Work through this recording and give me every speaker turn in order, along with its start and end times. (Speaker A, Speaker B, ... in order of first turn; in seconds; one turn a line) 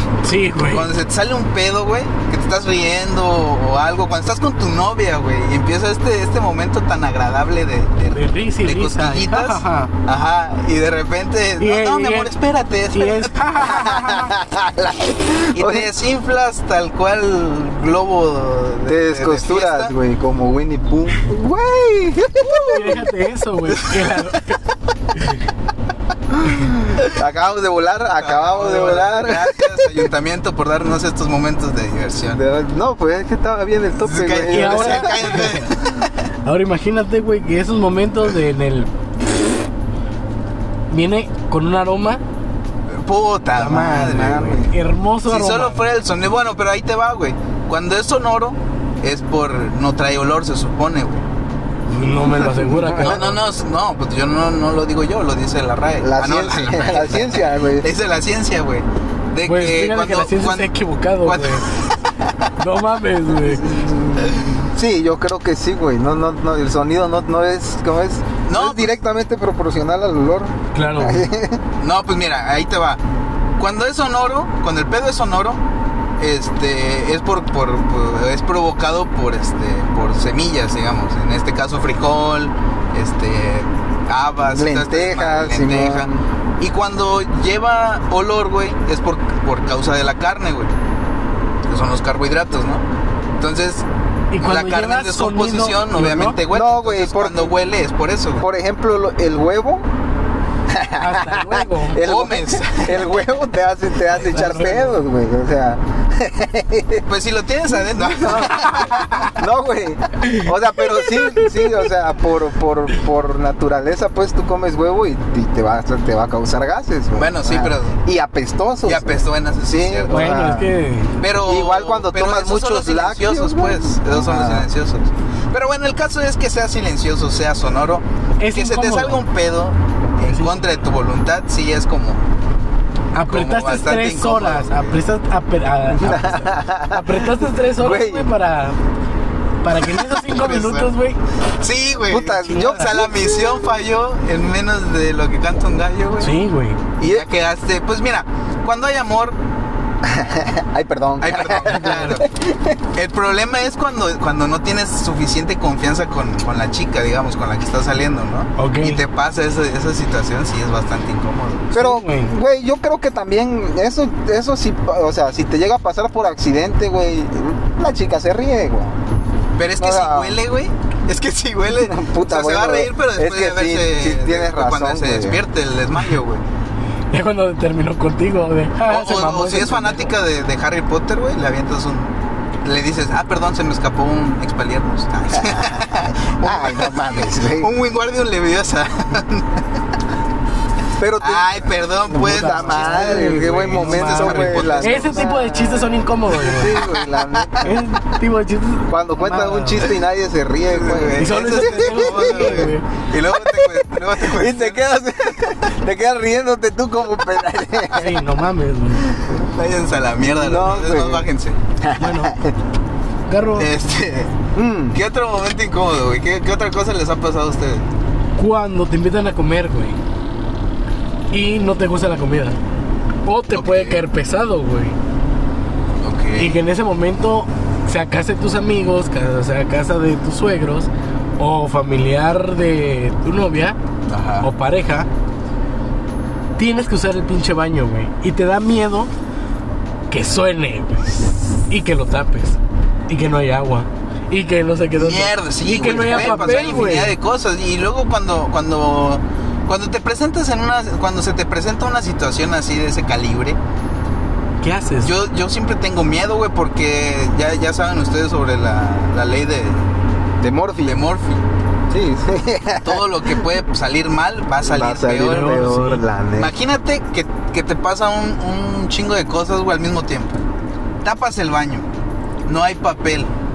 Speaker A: 0.2-0.9
Speaker B: 0.7-13.5
Speaker A: 8.1-9.9
Speaker A: 11.6-12.3
Speaker A: 12.9-14.3
Speaker C: 13.6-15.9
Speaker B: 15.5-19.9
Speaker C: 18.9-23.0
Speaker A: 22.5-24.6
Speaker C: 26.3-30.1
Speaker B: 28.2-32.4
Speaker C: 32.3-35.6
Speaker B: 34.0-36.1
Speaker A: 34.5-35.7
Speaker A: 36.4-38.9
Speaker A: 40.9-42.2
Speaker B: 42.9-44.6
Speaker A: 43.5-45.8
Speaker C: 43.9-44.7
Speaker B: 45.3-51.2
Speaker A: 51.9-53.4
Speaker C: 52.1-53.3
Speaker B: 53.0-62.0
Speaker C: 56.0-57.9
Speaker A: 59.4-61.7
Speaker A: 62.6-63.7
Speaker C: 63.4-71.6
Speaker B: 64.2-64.5
Speaker B: 68.5-68.9
Speaker A: 70.7-71.3
Speaker B: 71.8-73.0
Speaker B: 73.6-75.6
Speaker B: 76.2-90.7
Speaker C: 84.5-86.2
Speaker B: 91.7-92.8
Speaker B: 93.4-93.8
Speaker A: 94.3-96.4
Speaker B: 94.4-98.5
Speaker C: 96.5-97.5
Speaker C: 98.4-99.9
Speaker C: 100.7-107.0
Speaker A: 101.0-102.0
Speaker B: 102.0-103.2
Speaker A: 104.1-105.0
Speaker B: 107.1-109.3
Speaker C: 108.0-120.7
Speaker B: 117.2-118.0
Speaker B: 118.8-120.3
Speaker A: 120.1-121.2
Speaker B: 121.2-132.3
Speaker C: 121.3-124.7
Speaker A: 128.4-129.2
Speaker A: 130.3-130.6
Speaker A: 133.1-138.8
Speaker B: 133.3-135.0
Speaker C: 135.9-138.3
Speaker A: 139.6-141.2
Speaker B: 139.9-140.9
Speaker B: 141.6-146.3
Speaker C: 142.1-143.7
Speaker A: 142.4-142.9
Speaker A: 146.2-146.8
Speaker B: 147.0-149.4
Speaker C: 150.0-152.8
Speaker B: 151.2-152.2
Speaker A: 151.7-152.1
Speaker B: 152.9-161.7
Speaker A: 158.6-159.0
Speaker C: 161.7-169.0
Speaker A: 161.7-162.3
Speaker B: 169.6-176.4
Speaker C: 169.8-170.4
Speaker C: 171.7-175.4
Speaker A: 177.1-180.1
Speaker B: 178.9-189.6
Speaker C: 185.3-185.8
Speaker C: 186.4-187.7
Speaker C: 191.0-197.8
Speaker B: 191.2-195.2
Speaker A: 192.1-196.8
Speaker B: 196.7-197.5
Speaker A: 197.6-199.9
Speaker C: 198.9-202.7
Speaker B: 200.7-204.8
Speaker A: 201.2-202.8
Speaker C: 203.3-208.2
Speaker A: 207.9-209.1
Speaker B: 209.4-211.6
Speaker C: 210.3-211.3
Speaker C: 211.8-212.5
Speaker A: 212.0-212.3
Speaker A: 213.3-213.7
Speaker B: 213.6-214.4
Speaker C: 214.5-215.0
Speaker B: 214.9-217.8
Speaker A: 218.4-220.0
Speaker A: 221.3-222.6
Speaker A: 223.2-225.0
Speaker B: 223.5-224.0
Speaker B: 226.0-226.6
Speaker A: 226.4-233.8
Speaker B: 234.1-234.5
Speaker A: 234.4-235.1
Speaker A: 236.6-239.1
Speaker A: 240.1-247.2
Speaker B: 245.0-253.6
Speaker C: 246.2-246.6
Speaker A: 254.6-255.1
Speaker B: 255.0-259.9
Speaker C: 260.4-261.0
Speaker B: 260.8-261.4
Speaker C: 261.9-263.5
Speaker B: 262.8-265.7
Speaker C: 264.6-266.5
Speaker A: 265.2-266.0
Speaker B: 266.4-270.4
Speaker B: 271.0-271.9
Speaker B: 272.4-273.3